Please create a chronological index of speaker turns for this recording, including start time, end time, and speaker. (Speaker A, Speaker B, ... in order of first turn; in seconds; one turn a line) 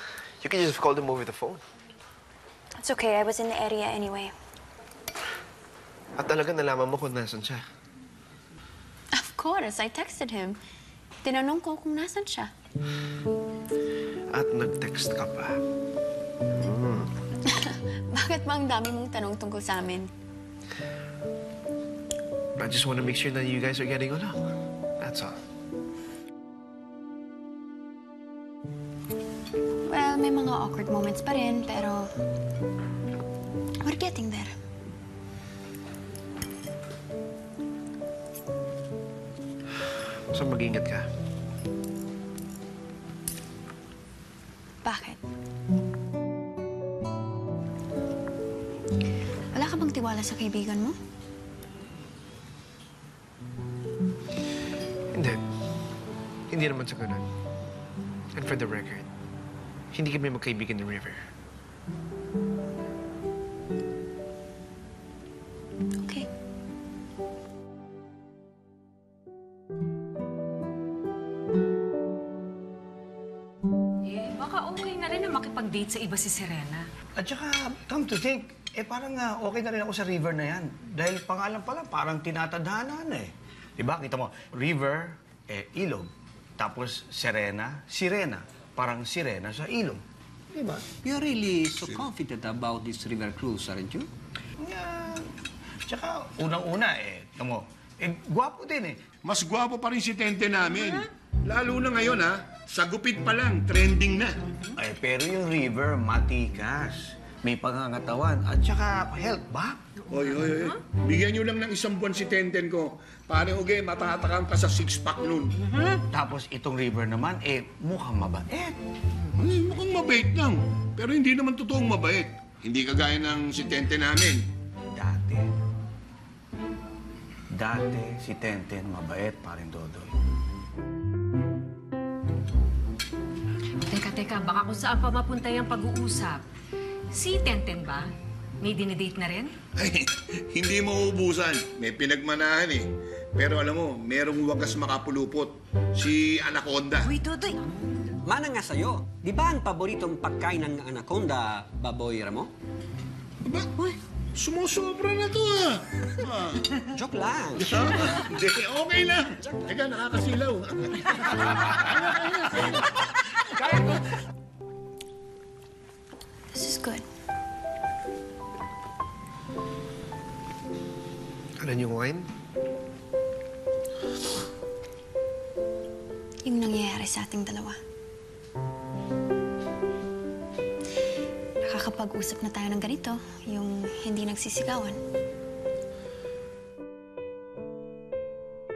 Speaker A: 0.4-1.6
Speaker B: 2.8-4.3
Speaker A: 6.2-7.6
Speaker B: 9.1-10.6
Speaker B: 11.2-12.5
Speaker A: 14.3-15.6
Speaker A: 16.6-17.1
Speaker B: 17.5-20.1
Speaker A: 22.6-25.4
Speaker B: 29.9-32.1
Speaker B: 33.8-34.5
Speaker A: 40.3-41.1
Speaker B: 44.8-45.2
Speaker B: 49.5-51.0
Speaker A: 55.1-55.4
Speaker A: 56.5-57.3
Speaker A: 58.3-59.1
Speaker A: 59.9-61.3
Speaker B: 66.0-66.3
Speaker C: 74.0-76.8
Speaker D: 77.2-90.0
Speaker E: 91.0-94.1
Speaker D: 94.6-95.2
Speaker D: 95.9-99.0
Speaker F: 99.2-104.4
Speaker D: 104.8-109.8
Speaker F: 110.1-115.5
Speaker D: 116.1-118.8
Speaker F: 119.3-124.5
Speaker D: 124.9-125.4
Speaker D: 127.5-130.1
Speaker C: 133.8-136.4
Speaker C: 137.2-138.1
Speaker C: 138.6-139.5
Speaker F: 139.8-147.1
Speaker E: 148.2-152.5
Speaker F: 153.4-153.7
Speaker F: 154.3-156.7
Speaker E: 156.9-157.8
Speaker F: 157.6-164.0
Speaker B: 166.5-167.1
Speaker A: 171.6-172.3
Speaker B: 176.4-177.8
Speaker B: 181.6-185.0